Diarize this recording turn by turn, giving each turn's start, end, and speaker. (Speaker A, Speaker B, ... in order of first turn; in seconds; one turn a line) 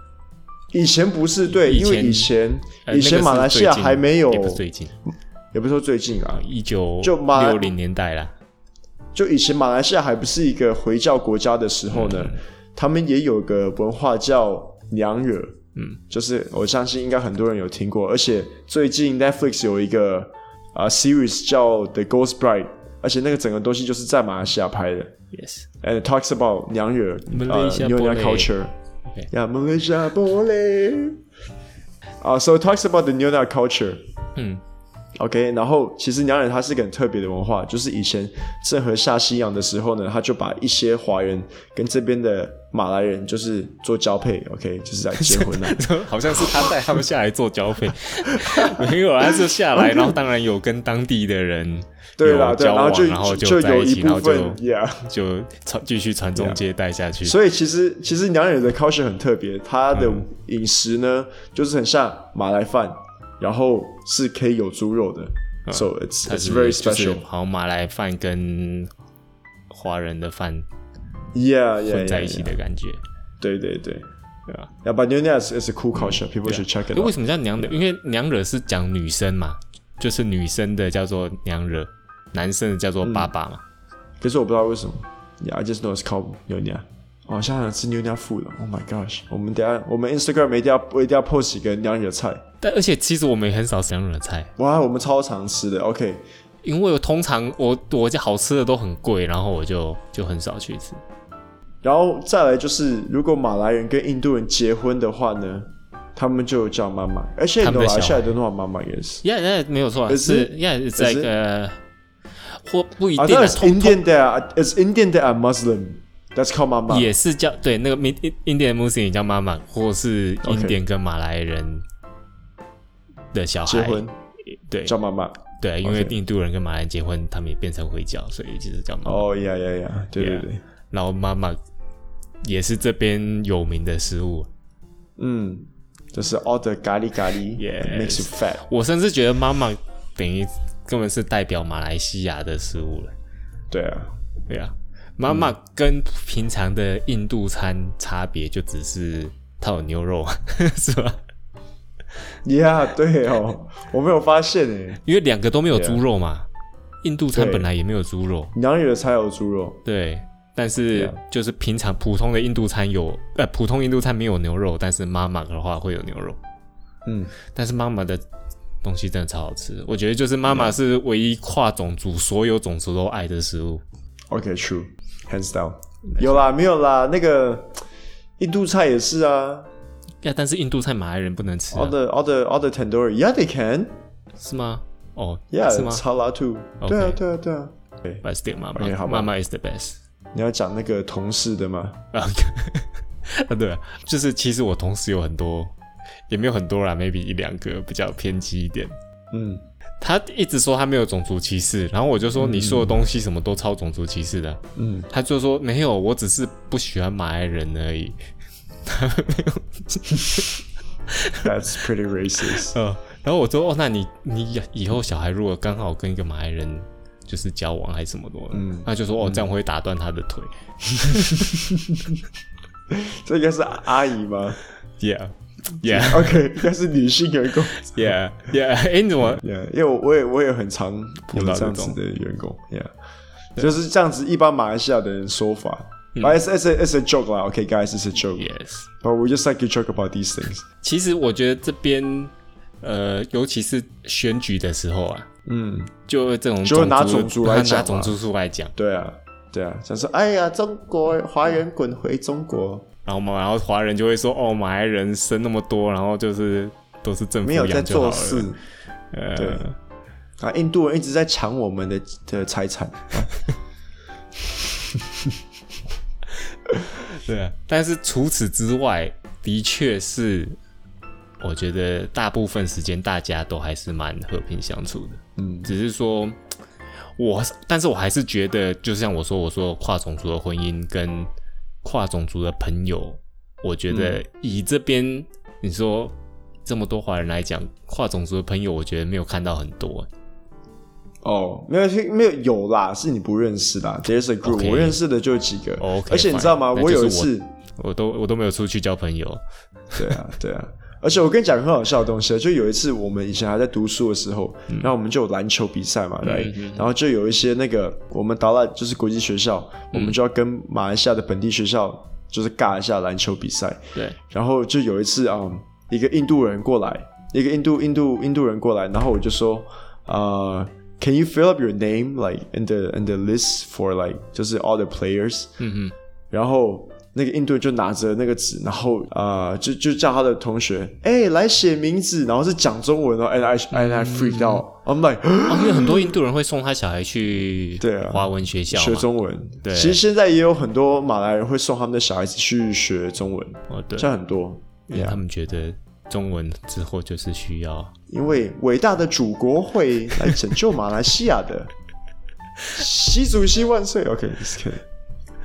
Speaker A: 0.7-4.6
Speaker B: 1.6-2.3
Speaker B: 2.9-5.0
Speaker A: 5.5-6.5
Speaker B: 6.3-8.3
Speaker A: 7.0-7.7
Speaker A: 9.1-15.6
Speaker B: 11.9-12.4
Speaker A: 16.1-25.1
Speaker B: 25.3-25.6
Speaker A: 25.8-28.7
Speaker B: 27.3-28.5
Speaker A: 29.3-31.2
Speaker A: 32.2-34.0
Speaker B: 34.4-34.6
Speaker A: 35.2-45.8
Speaker B: 45.2-57.4
Speaker A: 46.4-46.7
Speaker A: 48.3-50.2
Speaker A: 52.2-55.0
Speaker A: 57.2-67.2
Speaker B: 59.9-60.2
Speaker B: 65.7-68.9
Speaker B: 69.7-70.7
Speaker A: 71.3-72.6
Speaker B: 71.9-73.0
Speaker A: 73.4-74.1
Speaker A: 74.8-77.7
Speaker B: 76.0-83.6
Speaker A: 83.0-83.3
Speaker A: 84.2-92.4
Speaker B: 92.6-94.5
Speaker A: 94.6-96.2
Speaker B: 96.6-101.0
Speaker A: 101.8-109.2
Speaker B: 107.6-108.3
Speaker B: 109.2-111.8
Speaker A: 110.1-111.3
Speaker B: 112.6-114.0
Speaker A: 113.2-117.1
Speaker B: 116.9-121.8
Speaker A: 120.4-120.8
Speaker B: 123.3-124.1
Speaker A: 123.7-124.1
Speaker B: 124.7-124.9
Speaker A: 124.8-126.2
Speaker B: 125.6-129.3
Speaker A: 129.1-130.6
Speaker B: 130.2-131.6
Speaker B: 132.4-134.5
Speaker A: 135.2-138.6
Speaker B: 137.6-143.1
Speaker A: 143.7-144.1
Speaker B: 144.5-151.2
Speaker A: 152.4-155.0
Speaker B: 155.0-156.5
Speaker A: 155.7-156.0
Speaker B: 157.0-158.5
Speaker A: 157.3-157.7
Speaker A: 158.6-159.8
Speaker B: 159.8-166.4
Speaker A: 167.1-167.3
Speaker B: 167.5-168.2
Speaker B: 168.8-173.8
Speaker A: 170.5-170.8
Speaker A: 174.3-177.8
Speaker B: 176.1-176.4
Speaker A: 178.4-179.7
Speaker B: 180.2-181.9
Speaker A: 181.7-184.0
Speaker B: 184.4-186.0
Speaker A: 185.5-188.2
Speaker B: 186.8-187.2
Speaker B: 188.2-190.0
Speaker A: 188.8-189.3
Speaker A: 190.3-192.0
Speaker B: 192.1-195.7
Speaker B: 196.3-198.9
Speaker A: 199.3-199.6
Speaker B: 200.0-208.2
Speaker A: 202.4-203.0
Speaker A: 204.8-205.1
Speaker B: 208.8-210.5
Speaker B: 211.1-211.5
Speaker A: 211.4-212.8
Speaker B: 212.7-221.6
Speaker A: 218.5-219.5
Speaker A: 221.3-222.1
Speaker A: 222.9-224.6
Speaker B: 225.0-226.6
Speaker A: 225.8-228.1
Speaker B: 227.8-229.4
Speaker A: 229.3-232.9
Speaker B: 231.3-232.0
Speaker A: 233.6-238.5
Speaker B: 238.4-238.9
Speaker A: 239.0-240.6
Speaker B: 240.8-245.3
Speaker A: 245.5-245.9
Speaker B: 246.1-248.7
Speaker A: 246.6-248.2
Speaker A: 248.8-252.9
Speaker B: 253.1-258.5
Speaker A: 257.4-258.6
Speaker B: 259.1-259.8
Speaker A: 259.4-259.6
Speaker A: 260.4-263.3
Speaker A: 264.8-265.4
Speaker B: 266.8-270.6
Speaker B: 271.4-276.4
Speaker A: 275.4-275.7
Speaker B: 277.2-281.3
Speaker B: 281.8-290.1
Speaker A: 283.9-284.2
Speaker A: 291.2-297.5
Speaker B: 294.4-295.0
Speaker B: 295.8-299.4
Speaker A: 299.9-325.5
Speaker B: 306.2-306.9
Speaker B: 325.6-325.9
Speaker A: 326.3-336.1
Speaker B: 333.7-334.6
Speaker B: 335.5-339.1
Speaker A: 337.8-345.2
Speaker B: 339.6-340.0
Speaker B: 343.7-344.1
Speaker B: 344.9-347.9
Speaker A: 348.1-351.7
Speaker A: 352.7-354.8